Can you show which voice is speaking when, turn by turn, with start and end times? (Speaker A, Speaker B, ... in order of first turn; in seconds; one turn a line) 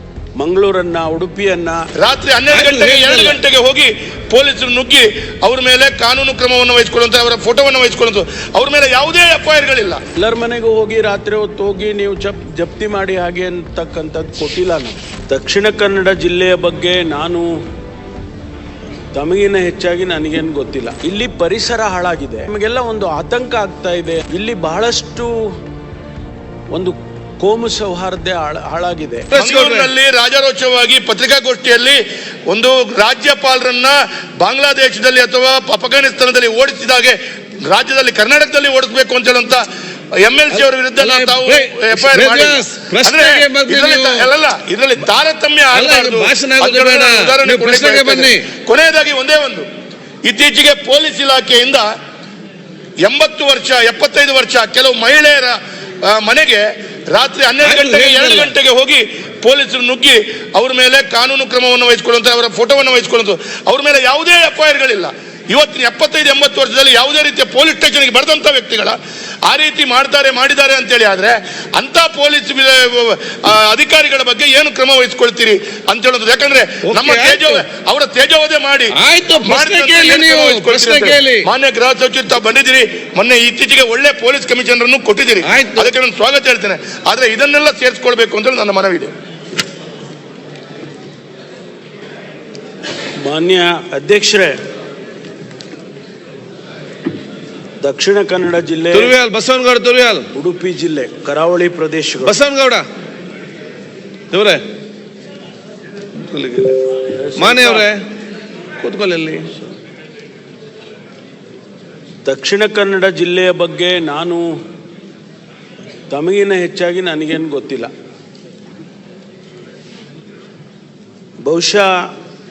Speaker A: 0.4-1.8
Speaker B: 2.0-10.0
Speaker C: 2.5-3.4
Speaker A: 10.2-17.5
Speaker A: 19.1-25.4
Speaker A: 26.7-29.3
Speaker C: 29.3-29.9
Speaker B: 29.3-39.6
Speaker B: 40.2-49.7
Speaker C: 40.5-44.3
Speaker C: 45.7-48.5
Speaker B: 50.2-51.9
Speaker B: 53.0-89.1
Speaker C: 57.6-58.5
Speaker C: 76.9-77.6
Speaker C: 78.9-81.5
Speaker C: 85.4-85.9
Speaker A: 93.2-94.6
Speaker A: 97.8-99.1
Speaker C: 98.9-100.3
Speaker A: 100.3-102.4
Speaker C: 102.2-102.8
Speaker C: 104.3-104.6
Speaker C: 106.2-108.0
Speaker A: 107.1-107.9
Speaker C: 108.8-109.5
Speaker A: 112.2-114.4
Speaker A: 116.1-117.9
Speaker A: 121.4-121.9